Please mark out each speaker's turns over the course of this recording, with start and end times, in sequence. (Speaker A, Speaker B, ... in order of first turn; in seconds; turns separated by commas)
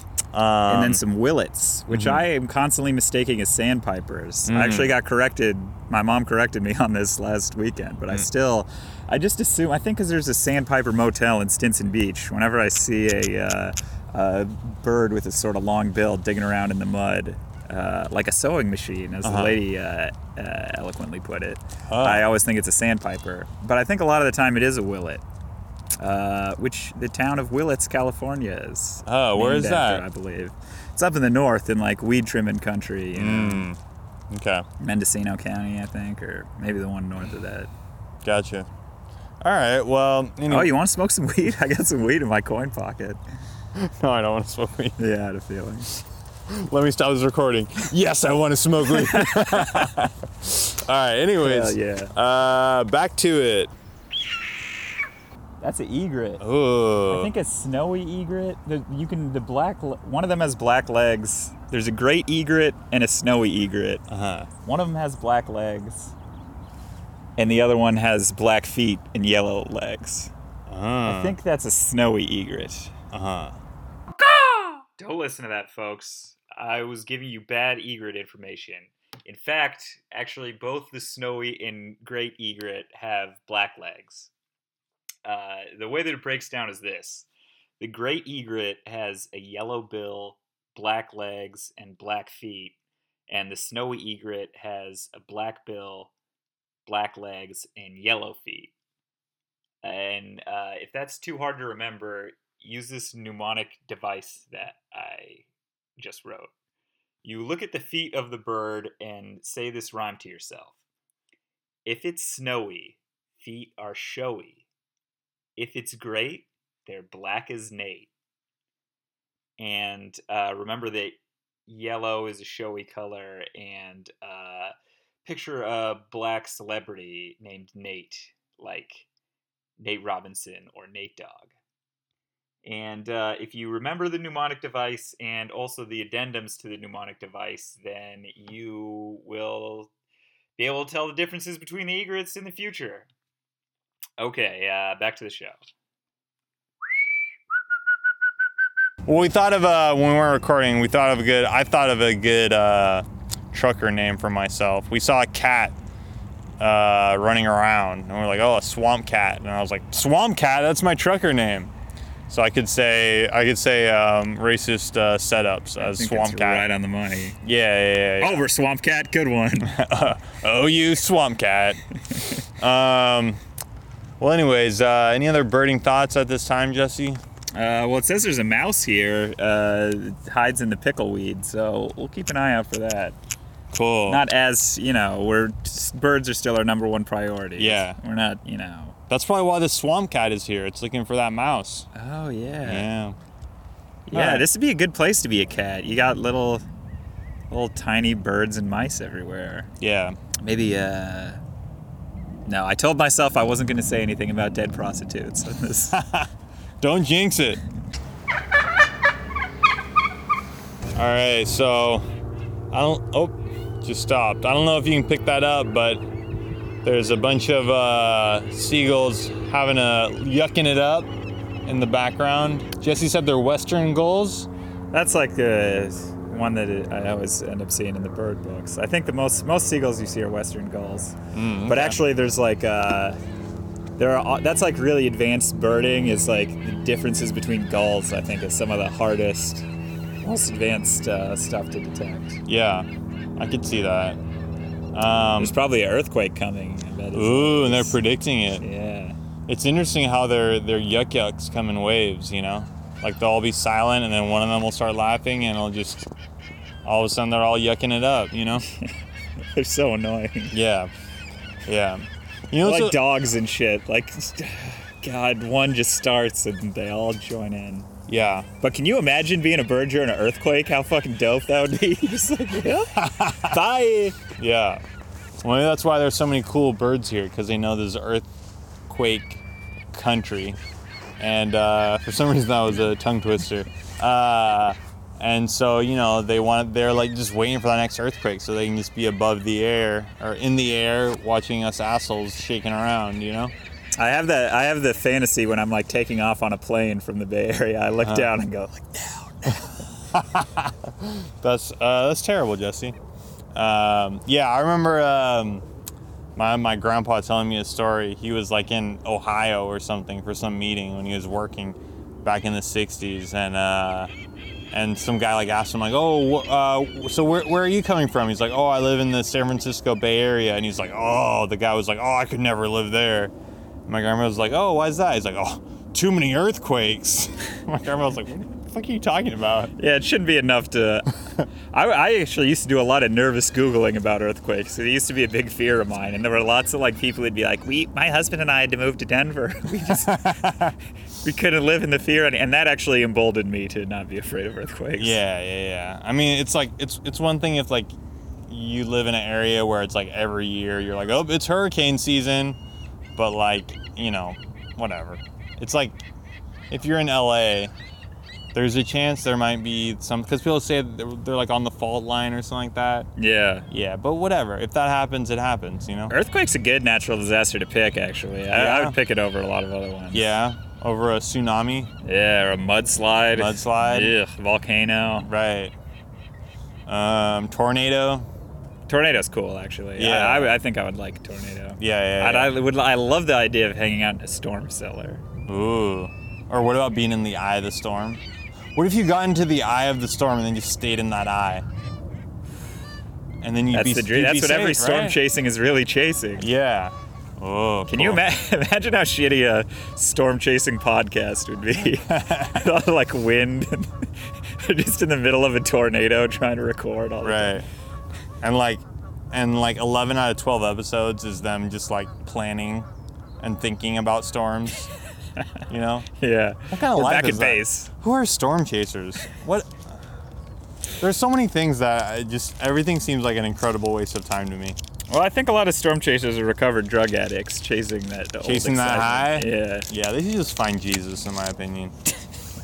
Speaker A: 0.3-1.0, Speaker B: 0.7-25.2, Speaker A: 1.9-2.2, Speaker A: 4.5-5.0, Speaker A: 19.2-19.6, Speaker A: 21.9-22.3, Speaker B: 26.0-33.7, Speaker A: 29.0-30.0, Speaker A: 33.1-33.8, Speaker A: 34.3-34.6, Speaker B: 34.8-37.7, Speaker A: 38.2-38.7, Speaker A: 39.4-40.7, Speaker B: 40.5-43.2, Speaker A: 43.7-45.0, Speaker B: 45.0-45.9, Speaker A: 46.5-53.7, Speaker B: 48.9-49.9, Speaker B: 51.4-52.1, Speaker B: 55.6-56.4, Speaker A: 56.4-57.3, Speaker B: 57.0-64.0, Speaker A: 64.1-64.5, Speaker B: 64.6-66.1, Speaker B: 67.4-70.3, Speaker A: 70.7-71.4, Speaker B: 71.0-72.9, Speaker A: 73.1-73.5, Speaker B: 74.2-84.3, Speaker B: 85.2-87.2, Speaker B: 87.8-92.8, Speaker B: 93.3-96.1, Speaker B: 96.8-98.7, Speaker B: 99.8-105.5, Speaker B: 106.0-106.5, Speaker B: 107.2-110.7, Speaker B: 111.8-114.6, Speaker B: 115.6-118.1, Speaker B: 119.6-124.7, Speaker B: 125.2-129.1, Speaker B: 129.8-131.5, Speaker B: 132.6-139.9, Speaker B: 140.6-143.1, Speaker B: 144.2-145.6, Speaker A: 149.1-155.7, Speaker A: 156.6-161.7, Speaker A: 162.3-166.7, Speaker B: 165.8-167.4, Speaker A: 167.4-168.4, Speaker B: 168.2-169.8, Speaker A: 169.6-171.8, Speaker B: 172.1-172.4, Speaker A: 172.6-173.4, Speaker A: 174.2-177.2, Speaker B: 177.5-183.2, Speaker A: 183.7-184.2, Speaker B: 184.1-188.9, Speaker A: 187.6-188.0, Speaker A: 189.1-191.9, Speaker B: 191.9-192.9, Speaker A: 192.6-193.2, Speaker B: 194.1-196.6, Speaker A: 194.1-194.5, Speaker B: 197.5-199.7, Speaker A: 199.8-200.2, Speaker B: 200.4-201.4, Speaker B: 202.4-206.0, Speaker A: 205.9-206.3, Speaker A: 206.8-207.6, Speaker A: 210.9-212.0, Speaker A: 212.7-216.0, Speaker A: 216.8-221.1, Speaker A: 221.7-224.5, Speaker B: 224.9-233.2, Speaker A: 231.3-232.0, Speaker B: 234.0-239.7, Speaker B: 240.2-242.4, Speaker A: 242.5-244.2, Speaker A: 244.9-245.6, Speaker B: 245.4-248.0, Speaker A: 247.1-248.6, Speaker B: 248.6-249.2, Speaker A: 249.5-256.1, Speaker A: 256.8-258.6, Speaker B: 258.6-258.9, Speaker B: 259.5-260.5, Speaker A: 260.5-260.9, Speaker A: 261.6-263.0, Speaker B: 262.6-267.9, Speaker A: 268.1-268.5, Speaker B: 268.6-274.2, Speaker A: 272.9-273.6, Speaker A: 274.4-274.8, Speaker A: 275.4-278.3, Speaker A: 278.9-280.6, Speaker A: 281.2-293.5, Speaker B: 294.0-299.9, Speaker A: 298.0-298.3, Speaker A: 300.1-302.9, Speaker A: 303.5-305.6, Speaker A: 306.4-314.1, Speaker A: 314.7-323.3, Speaker A: 323.9-329.7, Speaker B: 329.8-331.1, Speaker B: 331.7-340.7, Speaker A: 339.9-340.7, Speaker B: 341.2-345.2, Speaker A: 345.0-347.9, Speaker A: 348.5-352.6, Speaker A: 353.1-356.0, Speaker A: 356.7-357.7, Speaker A: 358.5-363.1, Speaker B: 363.2-363.6, Speaker A: 363.7-366.1, Speaker B: 366.1-370.2, Speaker A: 368.5-368.9, Speaker A: 370.1-371.9, Speaker B: 372.0-375.3, Speaker A: 373.3-374.1, Speaker A: 375.2-375.7, Speaker A: 376.9-378.3, Speaker B: 378.9-385.2, Speaker A: 380.0-380.5, Speaker A: 381.8-382.5, Speaker A: 385.4-388.2, Speaker A: 388.7-391.6, Speaker A: 393.4-395.2, Speaker B: 393.7-396.5, Speaker A: 396.4-398.2, Speaker B: 397.9-407.6, Speaker A: 402.0-402.6, Speaker A: 407.2-407.6, Speaker A: 408.4-412.9, Speaker A: 413.4-414.9, Speaker A: 415.7-416.1, Speaker B: 416.2-417.9, Speaker A: 416.7-420.0, Speaker A: 421.0-424.8, Speaker B: 425.1-429.9, Speaker A: 428.4-431.9